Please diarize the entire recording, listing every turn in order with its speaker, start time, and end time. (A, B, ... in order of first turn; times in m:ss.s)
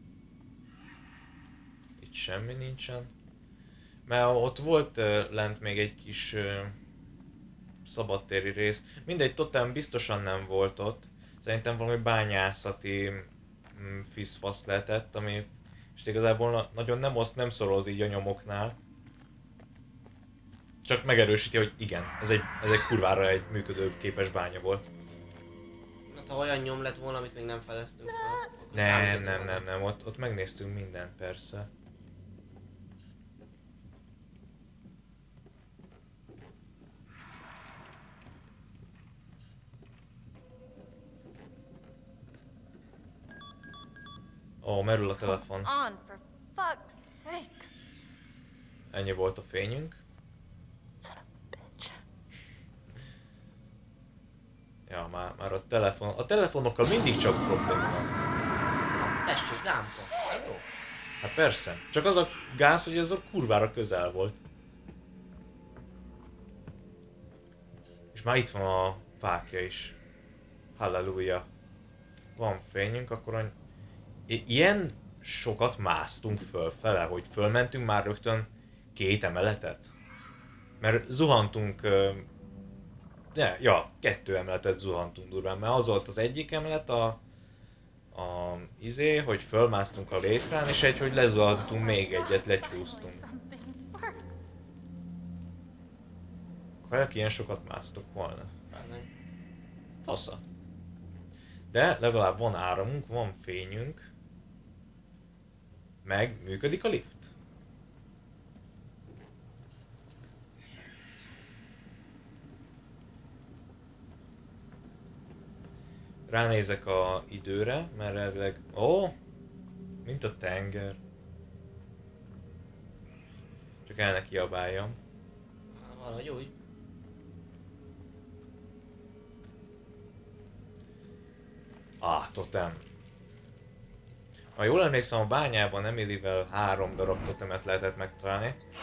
0:02.0-0:03.1 A
0:04.1-0:06.7 A
0:07.8-0:18.8 A
0:20.8-0:24.8 A
0:26.1-0:29.6 B
0:28.7-0:31.7 A
0:44.6-0:45.7 A
0:45.2-0:47.7 C
0:48.9-0:50.0 A
0:50.9-0:52.0 C
0:54.9-0:58.1 A
0:58.9-1:00.6 B
1:01.2-1:04.4 A
1:08.1-1:10.0 A
1:10.8-1:11.4 A
1:12.4-1:13.5 A
1:14.3-1:19.9 A
1:20.8-1:22.2 A
1:23.3-1:27.2 A
1:28.1-1:33.2 A
1:31.5-1:34.3 C
1:36.8-1:38.5 A
1:38.7-1:39.1 B
1:40.0-1:40.4 A
1:41.7-1:44.1 A
1:46.0-1:47.3 A
1:56.3-1:59.1 A
2:00.0-2:01.0 A
2:03.8-2:05.0 A
2:05.7-2:06.5 B
2:12.0-2:12.8 A
2:14.6-2:18.6 A